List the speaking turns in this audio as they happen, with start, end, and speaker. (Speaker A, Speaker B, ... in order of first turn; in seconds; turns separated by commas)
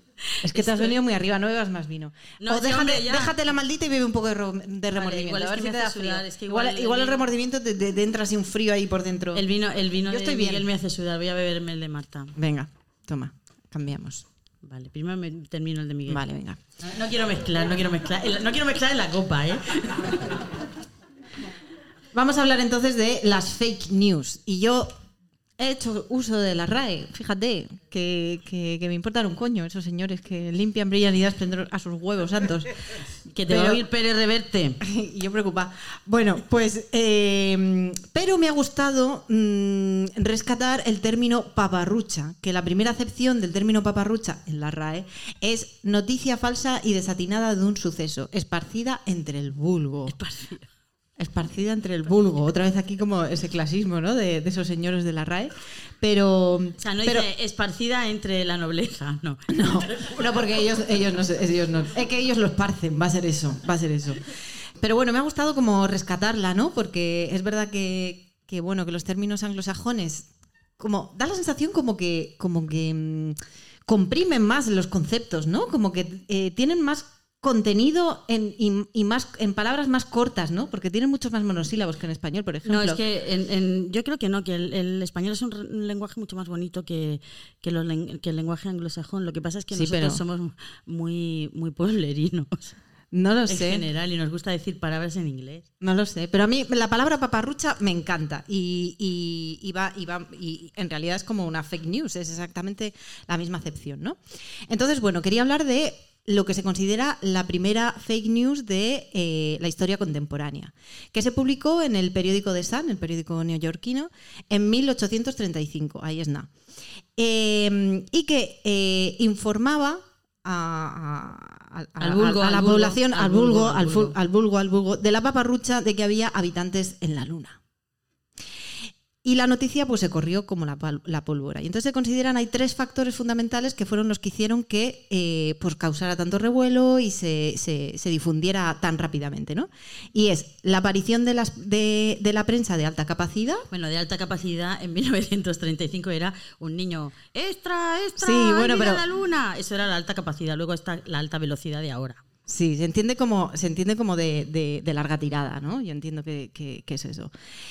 Speaker A: 0.4-1.0, Speaker B: 0.4-9.4, Speaker A: 2.4-3.4, Speaker A: 4.9-7.2, Speaker A: 9.3-12.3, Speaker B: 10.1-10.7, Speaker B: 12.4-14.3, Speaker A: 14.6-16.2, Speaker B: 16.1-16.6, Speaker A: 16.8-20.2, Speaker B: 22.1-24.9, Speaker B: 25.6-32.7, Speaker A: 33.3-34.8, Speaker B: 33.5-33.8, Speaker B: 34.8-50.2, Speaker A: 50.1-50.7, Speaker B: 51.2-57.3, Speaker A: 56.8-60.2, Speaker B: 59.5-64.2, Speaker B: 64.8-83.0, Speaker A: 82.7-92.8, Speaker B: 89.7-90.2, Speaker B: 93.1-93.8, Speaker A: 93.5-95.7, Speaker B: 95.8-116.5, Speaker B: 117.2-127.6, Speaker A: 122.0-124.2, Speaker B: 129.2-143.7, Speaker A: 143.7-152.2, Speaker B: 148.2-149.0, Speaker B: 152.5-157.3